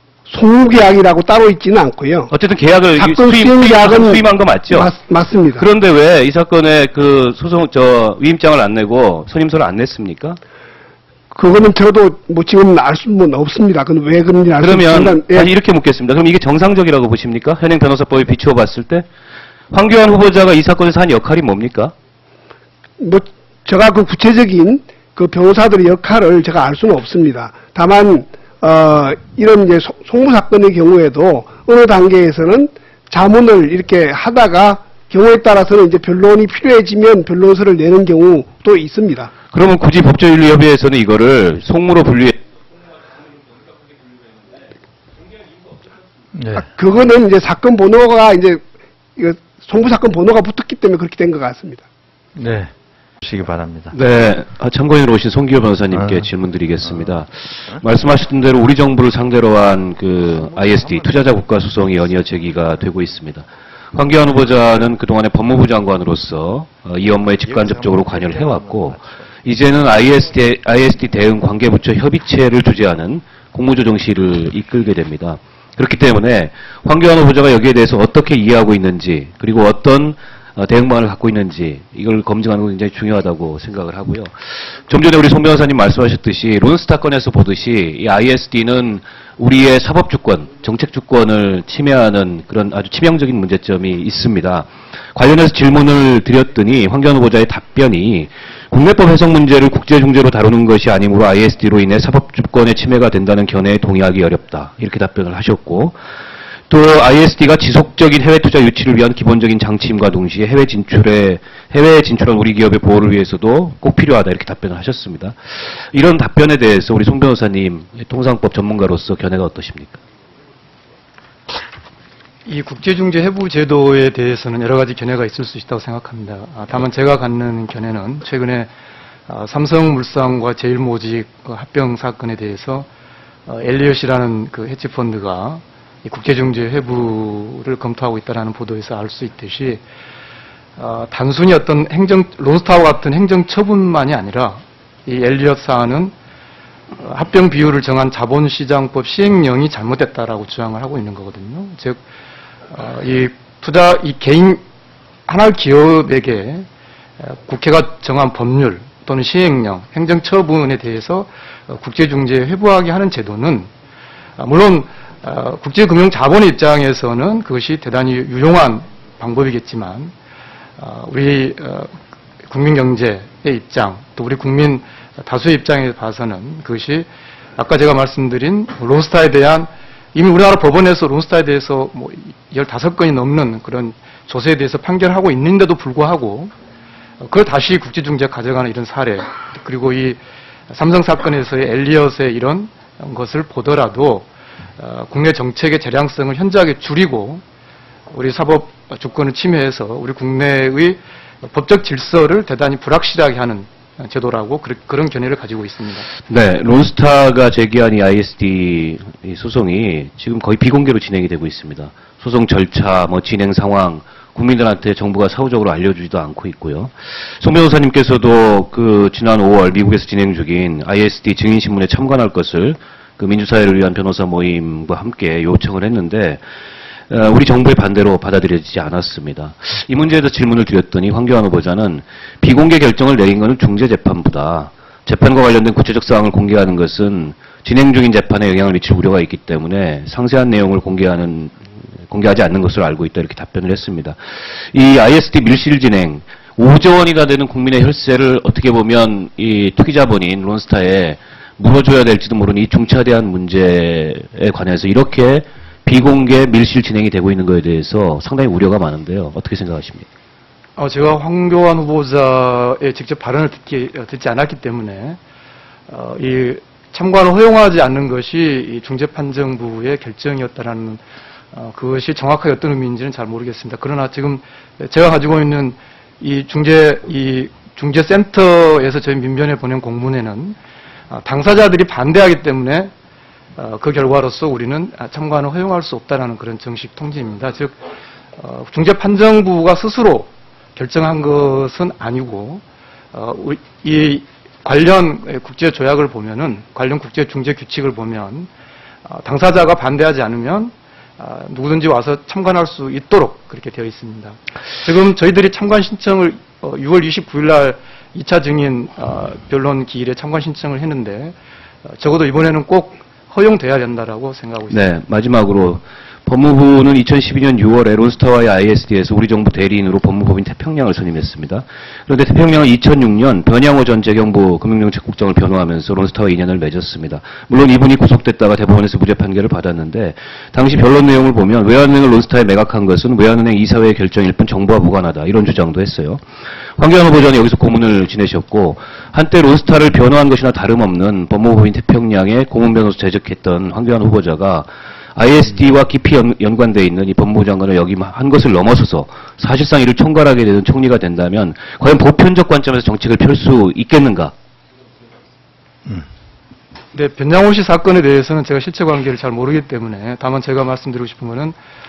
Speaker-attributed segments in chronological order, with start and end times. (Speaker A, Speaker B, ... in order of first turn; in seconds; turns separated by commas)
Speaker A: 0.2-2.3, Speaker B: 2.3-4.9, Speaker A: 3.0-5.6, Speaker B: 5.5-10.4, Speaker A: 11.3-15.5, Speaker B: 14.6-19.1, Speaker B: 19.7-21.9, Speaker A: 23.0-39.3, Speaker B: 39.5-42.4, Speaker C: 46.4-46.6, Speaker A: 46.6-48.6, Speaker A: 49.1-51.8, Speaker C: 52.4-53.9, Speaker B: 53.9-84.3, Speaker C: 55.9-56.2, Speaker C: 67.8-69.1, Speaker B: 84.9-106.0, Speaker B: 106.7-115.3, Speaker B: 115.9-120.0, Speaker D: 122.4-128.7, Speaker D: 129.3-132.9, Speaker D: 133.5-139.8, Speaker D: 140.8-146.1, Speaker D: 147.0-152.0, Speaker D: 152.7-154.6, Speaker D: 155.3-156.7, Speaker D: 157.2-163.7, Speaker D: 164.4-170.1, Speaker D: 170.8-186.5, Speaker D: 187.2-190.2, Speaker D: 190.7-197.4, Speaker D: 198.1-206.1, Speaker B: 206.3-226.4, Speaker B: 227.1-244.2, Speaker B: 244.7-260.1, Speaker D: 260.8-265.2, Speaker D: 265.9-271.0, Speaker D: 271.5-280.6, Speaker D: 281.1-282.9, Speaker D: 283.6-287.8, Speaker D: 288.4-298.5, Speaker D: 299.0-311.3, Speaker D: 311.9-314.9, Speaker B: 314.7-336.2, Speaker B: 336.8-354.3, Speaker D: 356.9-361.6